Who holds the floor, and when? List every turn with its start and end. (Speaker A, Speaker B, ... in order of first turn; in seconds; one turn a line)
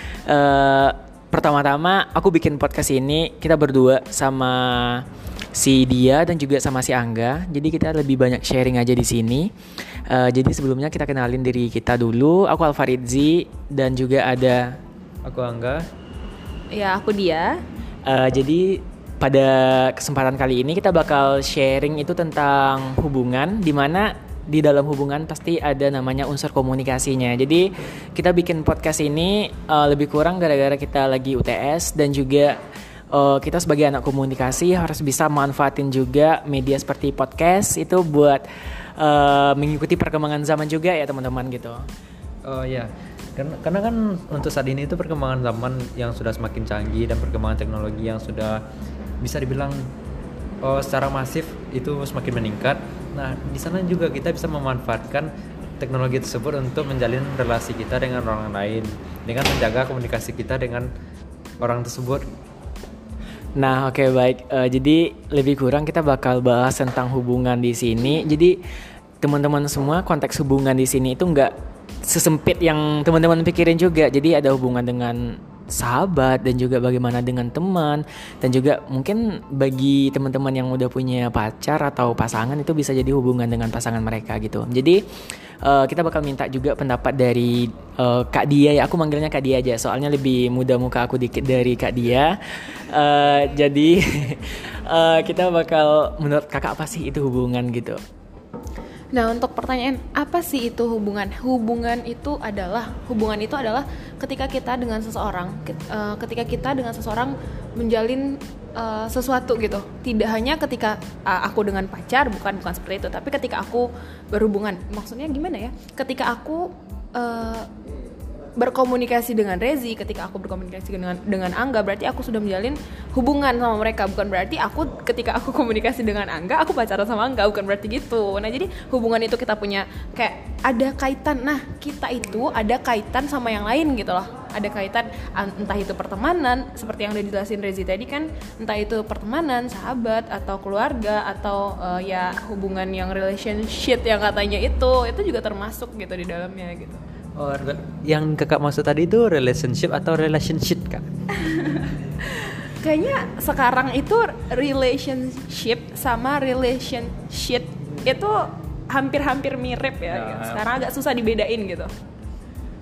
Speaker A: 0.3-5.0
Speaker A: 5.6-9.5
Speaker A: 10.1-14.8
Speaker B: 15.2-15.8
Speaker C: 16.7-17.5
Speaker A: 18.1-32.6
Speaker A: 33.1-38.4
Speaker A: 39.0-41.8
Speaker B: 42.5-48.6
Speaker B: 49.2-49.8
Speaker B: 50.6-60.9
Speaker B: 61.6-62.2
Speaker A: 63.6-68.6
Speaker A: 69.2-71.5
Speaker A: 72.1-75.2
Speaker A: 75.8-85.0
Speaker A: 85.6-92.4
Speaker A: 92.9-98.0
Speaker C: 99.1-117.7
Speaker C: 118.6-147.0
Speaker B: 147.4-151.0
Speaker C: 151.4-158.4
Speaker C: 158.9-161.9
Speaker A: 160.2-160.6